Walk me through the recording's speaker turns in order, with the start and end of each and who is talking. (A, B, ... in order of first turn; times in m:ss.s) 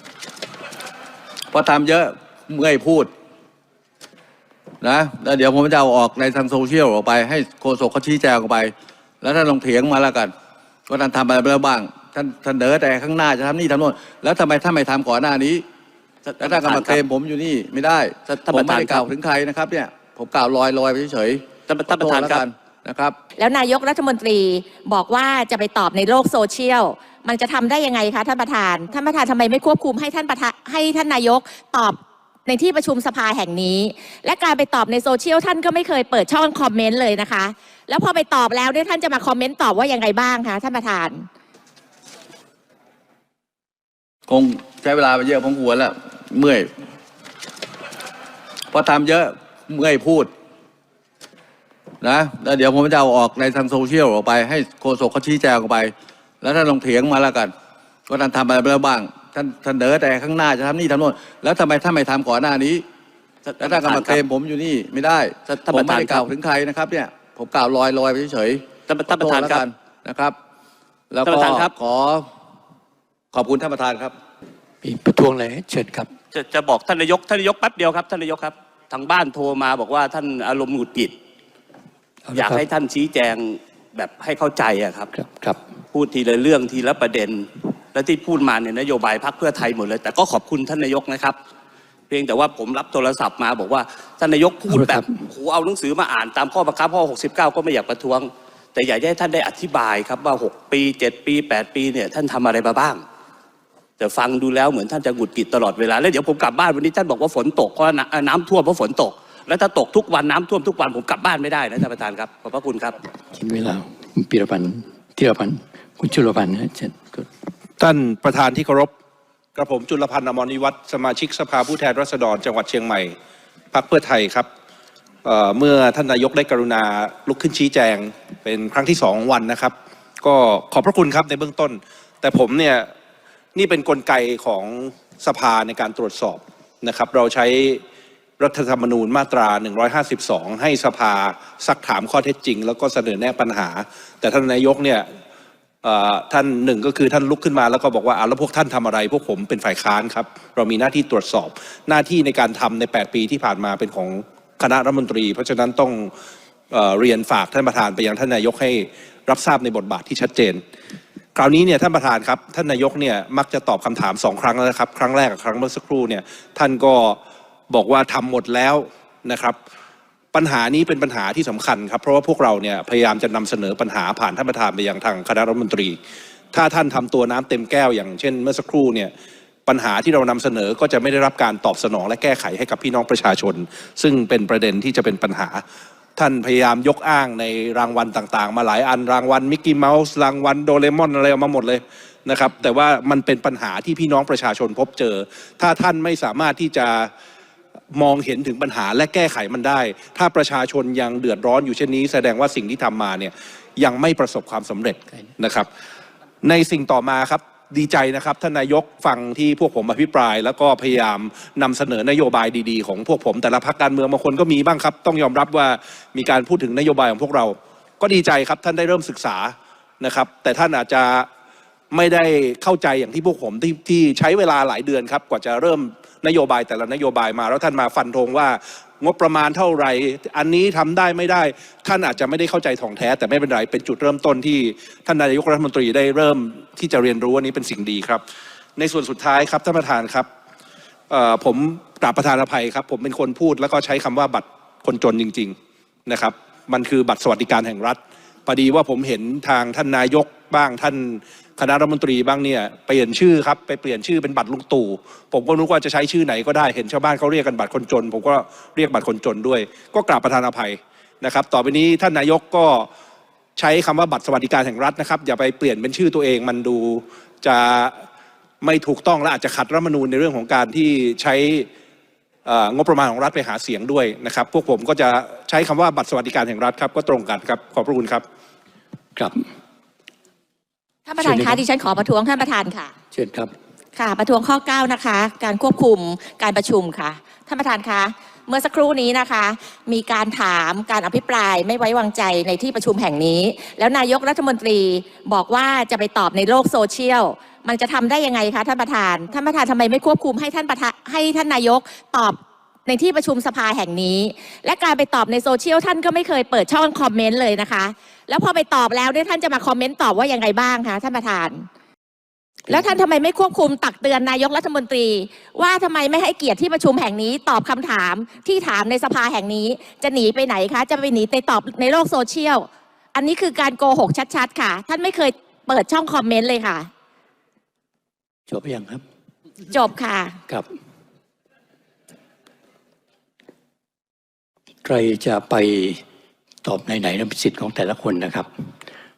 0:01.5-0:03.1 A
0:04.8-0:10.3 A
0:10.9-0:15.6 A
0:16.2-0:17.0 B
0:16.4-0:23.2 A
0:18.3-0:19.1 B
0:21.7-0:22.4 B
0:23.4-0:41.3 C
0:44.3-0:46.7 A
0:48.7-0:50.3 A
0:52.0-0:57.5 A
0:58.1-1:02.8 A
1:03.4-1:04.2 B
1:03.6-1:10.4 A
1:05.5-1:06.3 B
1:08.9-1:09.6 B
1:11.1-1:12.3 A
1:11.2-1:11.7 B
1:13.3-1:14.1 A
1:14.8-1:16.1 D
1:16.3-1:21.1 B
1:22.2-1:22.6 D
1:22.3-1:25.1 B
1:25.1-1:25.6 D
1:25.9-1:31.4 B
1:32.1-1:43.0 B
1:34.7-1:35.2 D
1:44.0-1:52.9 B
1:53.3-1:57.3 D
1:57.8-1:58.9 E
1:59.5-2:03.1 E
2:03.7-2:04.5 E
2:05.2-2:12.9 E
2:13.5-2:17.8 E
2:18.4-2:25.0 E
2:25.8-2:36.1 E
2:36.7-2:40.6 E
2:41.3-2:47.2 E
2:47.7-2:49.6 E
2:50.3-2:56.0 E
2:56.5-2:59.1 E
2:59.6-3:05.6 E
3:06.2-3:17.1 E
3:17.9-3:25.7 E
3:26.4-3:41.3 E
3:41.9-3:58.2 E
3:58.8-4:00.3 E
4:01.1-4:05.5 E
4:06.1-4:22.9 E
4:23.6-4:28.0 E
4:28.6-4:31.7 E
4:32.4-4:38.2 E
4:39.2-4:39.4 D
4:41.1-4:42.9 C
4:41.2-4:41.6 D
4:43.1-4:43.5 D
4:44.0-5:11.7 C
5:12.7-5:26.9 C
5:28.5-5:29.0 D
5:29.7-5:30.4 C
5:34.8-5:36.0 D
5:36.6-5:38.5 D